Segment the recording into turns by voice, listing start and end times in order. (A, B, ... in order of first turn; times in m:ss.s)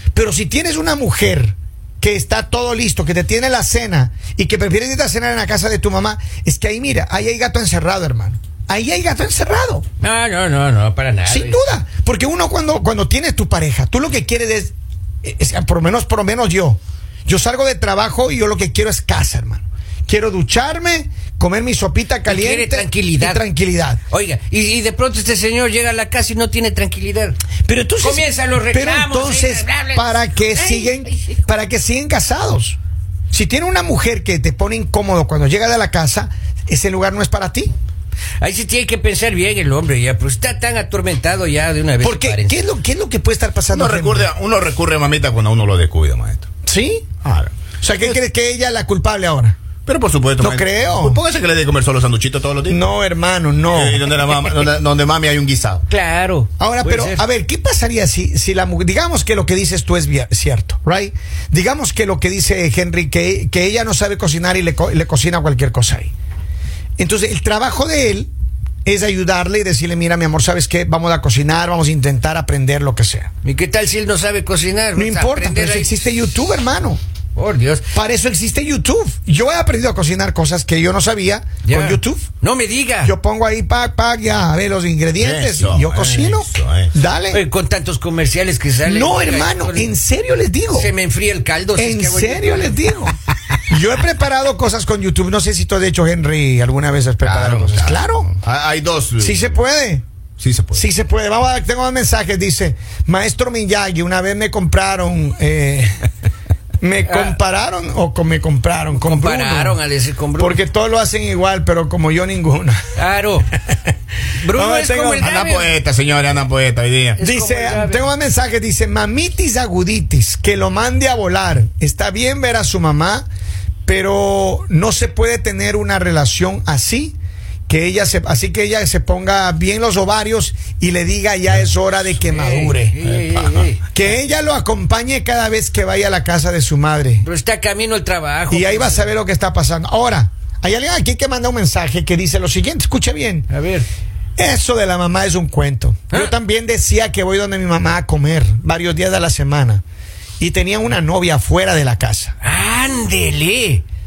0:00.1-0:09.8 A
0:10.0-0:11.6 B
0:11.3-0:24.0 A
0:22.3-0:23.4 B
0:24.1-0:27.4 B
0:27.6-0:32.8 A
0:28.0-0:31.4 B
0:33.3-0:37.7 A
0:38.4-0:42.6 B
0:42.0-0:44.3 A
0:43.7-0:46.4 C
0:46.6-0:47.1 A
0:47.2-0:48.2 C
0:47.8-0:49.6 A
0:49.9-0:52.8 C
0:50.4-0:51.2 A
0:52.7-0:54.1 A
0:53.7-0:55.8 C
0:55.9-0:57.2 B
0:56.6-1:06.1 A
1:07.0-1:08.3 A
1:08.8-1:13.3 A
1:13.4-1:16.0 B
1:15.0-1:17.0 A
1:17.4-1:17.8 B
1:17.9-1:22.2 A
1:21.6-1:23.1 B
1:23.0-1:27.4 A
1:25.2-1:26.9 C
1:27.3-1:29.9 B
1:28.8-1:30.9 A
1:30.7-1:32.8 B
1:31.8-1:33.1 A
1:33.7-1:38.3 A
1:37.2-1:39.6 C
1:39.2-1:40.0 A
1:40.4-1:40.8 C
1:40.8-1:46.0 A
1:46.8-1:49.8 A
1:47.0-1:47.4 B
1:48.9-1:50.6 B
1:50.4-1:52.8 A
1:53.0-1:53.5 B
1:54.4-1:55.7 B
1:54.5-1:55.4 A
1:55.2-1:57.2 C
1:57.2-1:58.0 B
1:57.2-2:03.2 A
2:03.9-2:07.2 A
2:07.7-2:13.0 A
2:12.4-2:13.8 B
2:13.0-2:13.6 C
2:13.9-2:17.2 A
2:17.2-2:19.1 B
2:18.5-2:23.5 A
2:23.5-2:23.9 B
2:24.4-2:29.8 A
2:30.4-2:32.4 A
2:32.4-2:33.8 B